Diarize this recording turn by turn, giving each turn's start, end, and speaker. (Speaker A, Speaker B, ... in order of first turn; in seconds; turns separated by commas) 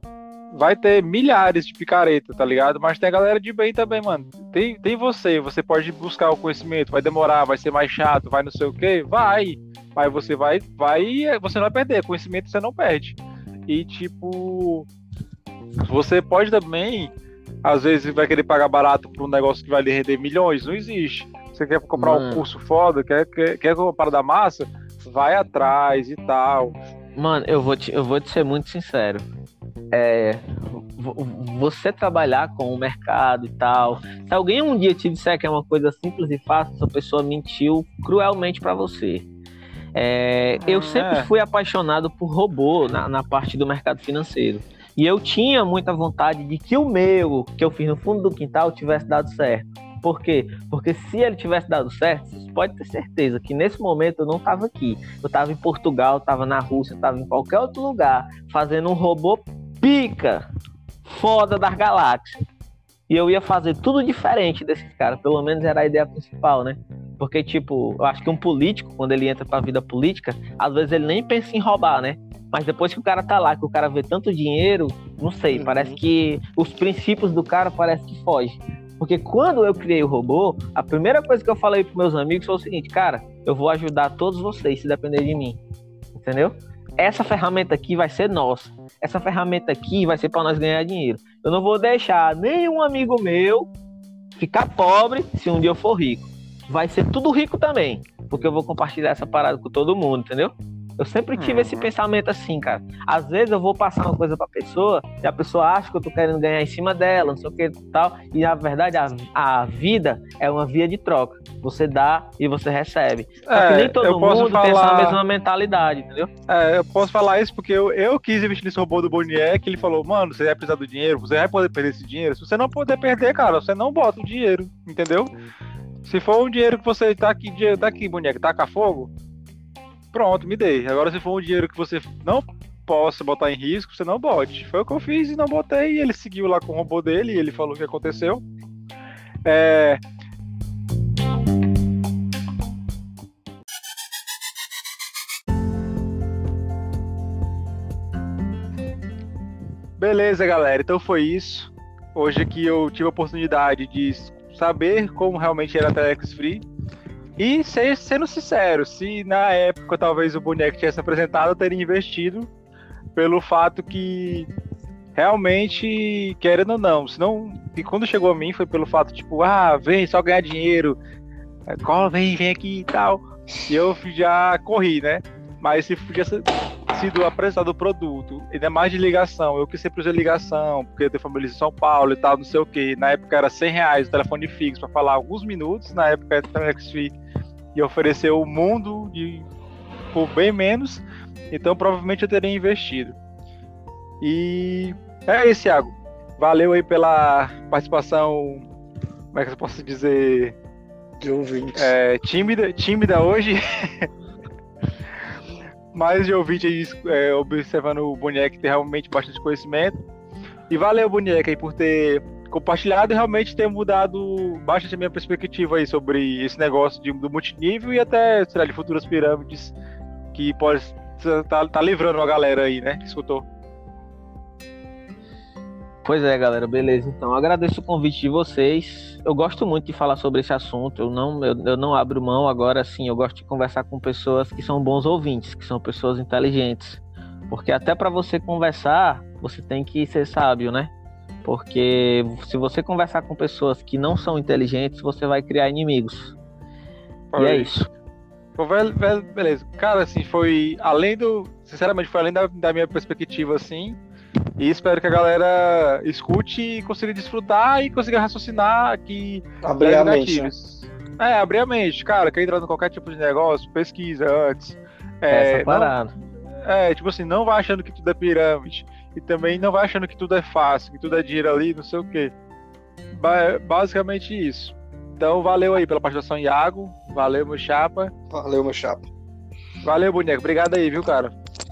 Speaker A: 0.5-14.9, Speaker A: 15.8-17.1, Speaker A: 17.6-26.7, Speaker B: 21.9-22.4, Speaker B: 27.1-29.3, Speaker B: 29.9-39.3, Speaker B: 39.9-60.5, Speaker A: 40.6-41.3, Speaker B: 61.0-62.4, Speaker B: 63.1-85.6, Speaker C: 75.5-76.0, Speaker B: 86.2-93.7, Speaker B: 94.3-116.3, Speaker A: 101.3-101.9, Speaker A: 113.5-115.2, Speaker A: 116.5-125.3, Speaker A: 126.0-129.1, Speaker A: 130.1-138.4, Speaker A: 139.4-140.0, Speaker A: 150.0-156.6, Speaker A: 157.4-162.5, Speaker A: 163.2-164.5, Speaker A: 165.2-170.9, Speaker A: 171.7-187.1, Speaker A: 187.7-189.5, Speaker A: 190.1-193.1, Speaker A: 194.2-198.6, Speaker A: 199.3-200.6, Speaker C: 201.2-201.9, Speaker A: 201.7-204.1, Speaker A: 205.9-209.9, Speaker A: 210.7-219.7, Speaker A: 220.3-223.4, Speaker B: 226.0-240.9, Speaker B: 241.4-246.3, Speaker A: 247.3-247.7, Speaker B: 247.4-247.9, Speaker A: 248.6-254.0, Speaker A: 254.6-265.9, Speaker C: 259.6-260.5, Speaker B: 265.3-266.1, Speaker A: 266.6-272.3, Speaker A: 273.1-278.1, Speaker C: 278.3-279.1, Speaker A: 279.8-281.3